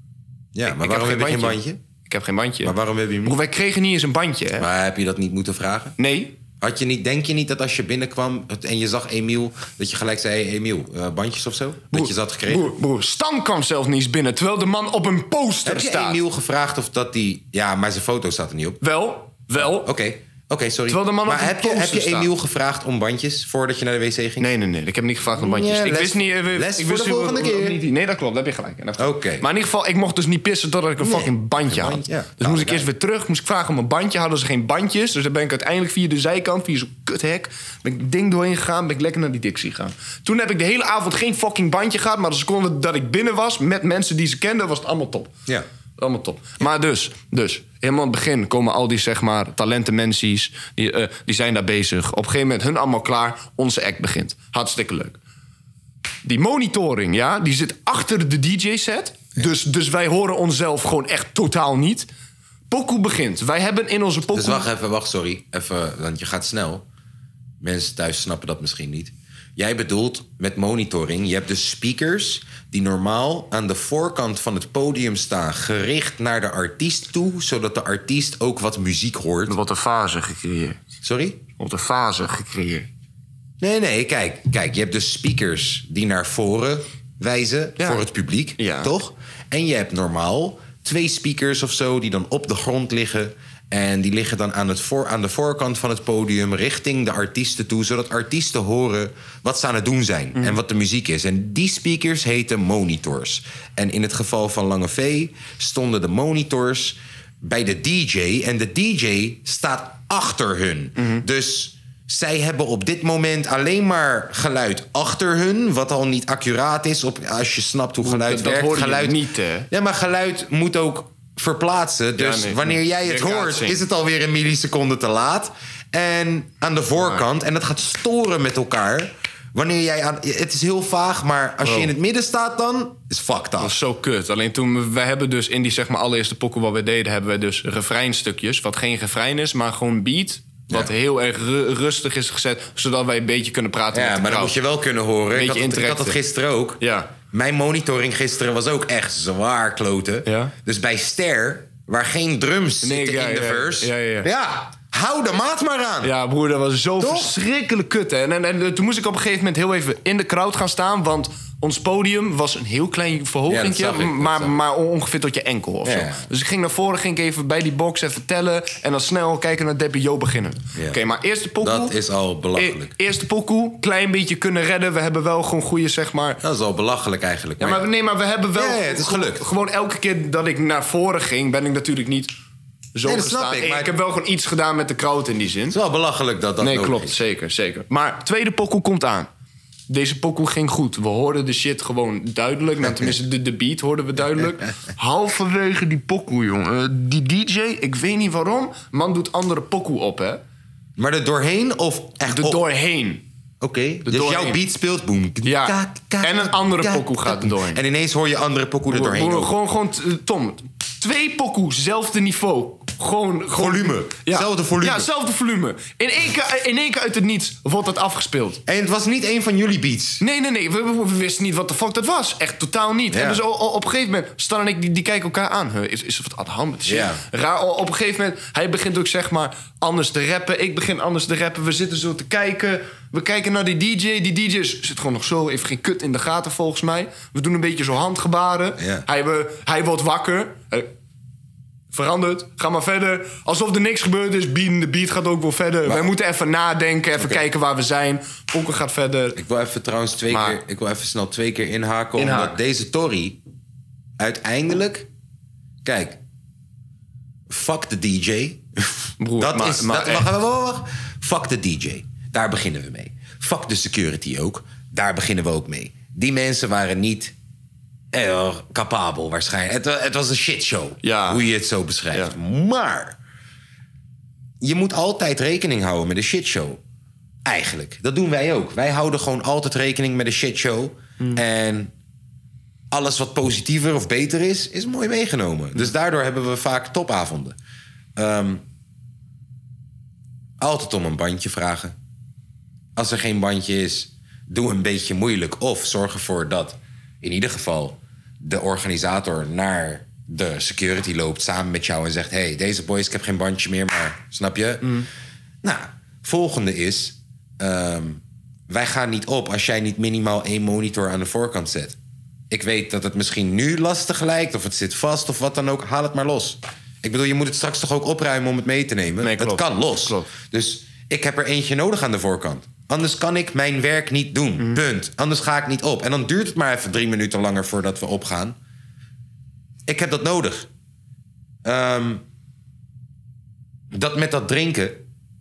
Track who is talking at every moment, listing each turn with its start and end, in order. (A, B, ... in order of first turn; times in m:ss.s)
0:00.5-0:01.8 A
0:00.7-0:04.7 B
0:02.6-0:03.4 A
0:04.6-0:06.0 A
0:06.0-0:06.4 B
0:06.6-0:12.7 A
0:11.9-0:16.2 B
0:15.6-0:18.8 A
0:18.8-0:19.9 B
0:19.6-0:24.5 A
0:20.9-0:22.3 B
0:24.4-0:45.3 B
0:25.3-0:27.8 A
0:29.0-0:29.5 A
0:31.0-0:32.9 A
0:46.0-0:55.2 B
0:56.2-1:02.1 B
1:02.7-1:04.7 B
1:04.3-1:06.8 A
1:07.6-1:19.6 A
1:19.5-1:20.8 B
1:21.0-1:21.4 A
1:21.6-1:22.9 B
1:23.6-2:13.8 A
1:27.8-1:28.0 B
1:28.6-1:28.9 B
1:51.0-1:51.2 B
1:58.0-1:59.7 B
2:02.2-2:03.8 B
2:11.6-2:11.9 B
2:13.6-2:24.6 B
2:23.9-2:36.1 A
2:25.3-2:26.2 B
2:26.8-2:27.2 B
2:30.3-2:30.5 B
2:32.8-2:34.3 B
2:36.0-2:52.0 B
2:37.0-2:37.4 A
2:43.5-2:44.6 A
2:45.8-2:46.2 A
2:51.6-2:52.9 A
2:52.5-2:56.4 B
2:56.4-2:57.9 A
2:57.6-3:02.3 B
2:58.5-2:59.5 A
3:03.0-3:05.8 B
3:03.0-3:04.0 A
3:05.7-3:07.2 A
3:06.6-3:09.3 B
3:09.9-3:20.4 B
3:12.8-3:13.1 A
3:21.0-3:22.6 A
3:22.3-3:23.2 B
3:23.6-3:29.5 A
3:24.1-3:24.6 B
3:25.4-3:27.8 B
3:28.9-3:38.6 B
3:33.5-3:35.1 A
3:38.7-3:40.2 A
3:40.2-4:00.9 B
3:43.1-3:43.4 A
3:46.9-3:47.2 A
3:58.8-3:59.0 A
4:01.9-4:09.4 B
4:05.8-4:06.1 A
4:07.2-4:07.4 A
4:09.4-4:13.4 A
4:10.3-4:10.6 B
4:12.2-4:12.6 B
4:14.2-4:15.1 A
4:15.8-4:16.2 A
4:17.5-4:27.3 A
4:19.2-4:20.3 B
4:28.1-4:33.2 A
4:31.0-4:31.5 B
4:34.6-4:36.8 A
4:37.5-4:41.9 A
4:42.9-4:47.6 A
4:48.2-4:48.6 A
4:50.6-4:52.0 A
4:53.0-5:05.1 A
5:05.6-5:12.0 A
5:12.5-5:28.6 A
5:19.2-5:20.3 B
5:29.9-5:30.7 A
5:31.6-5:32.2 A
5:33.9-5:35.0 A